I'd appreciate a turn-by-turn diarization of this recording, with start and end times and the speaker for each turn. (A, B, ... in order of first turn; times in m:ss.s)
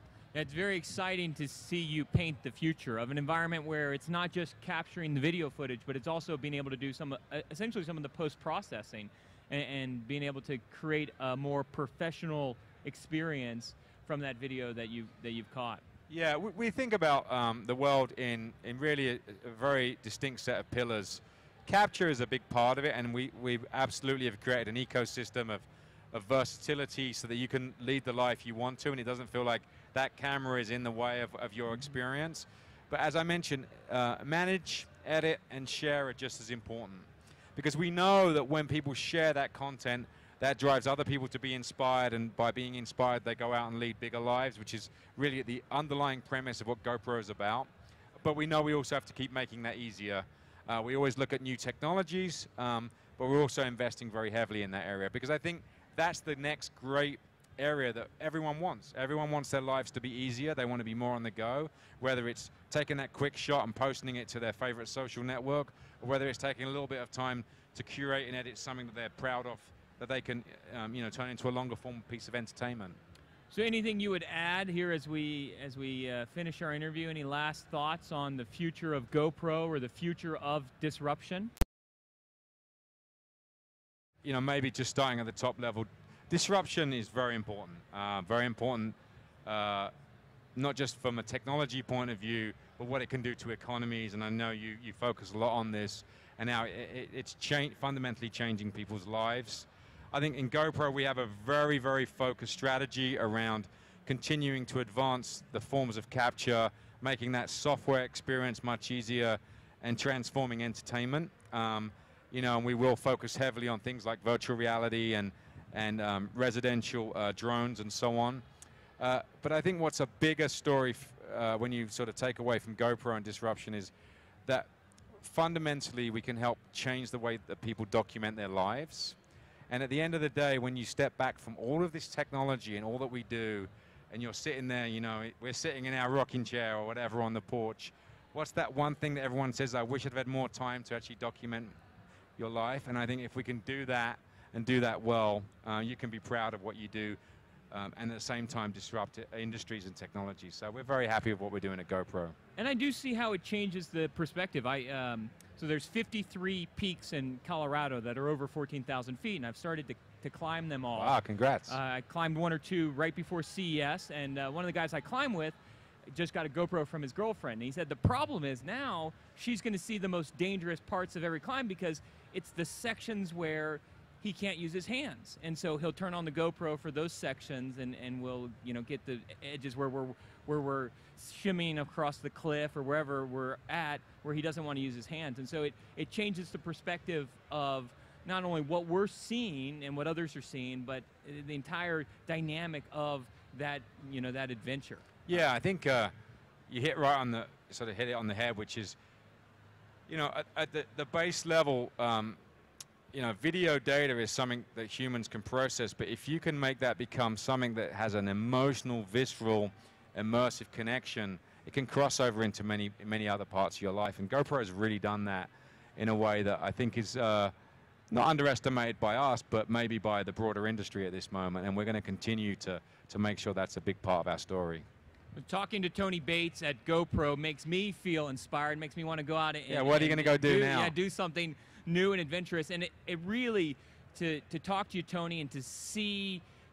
0:00.3-0:15.8 A
0:16.1-0:47.7 B
0:48.2-1:13.0 B
1:13.5-1:21.5 A
1:24.2-1:29.9 B
1:30.6-1:58.4 B
1:59.0-2:03.9 B
2:05.2-2:09.2 B
2:09.7-2:21.7 B
2:22.4-2:27.2 B
2:27.7-2:32.3 B
2:32.6-2:45.6 A
2:40.9-2:41.8 B
2:46.1-3:15.1 A
3:15.3-3:16.1 B
3:16.7-3:19.0 B
3:20.1-3:22.4 B
3:23.1-3:37.5 B
3:38.1-3:44.8 B
3:45.3-3:56.4 A
3:49.7-3:50.9 B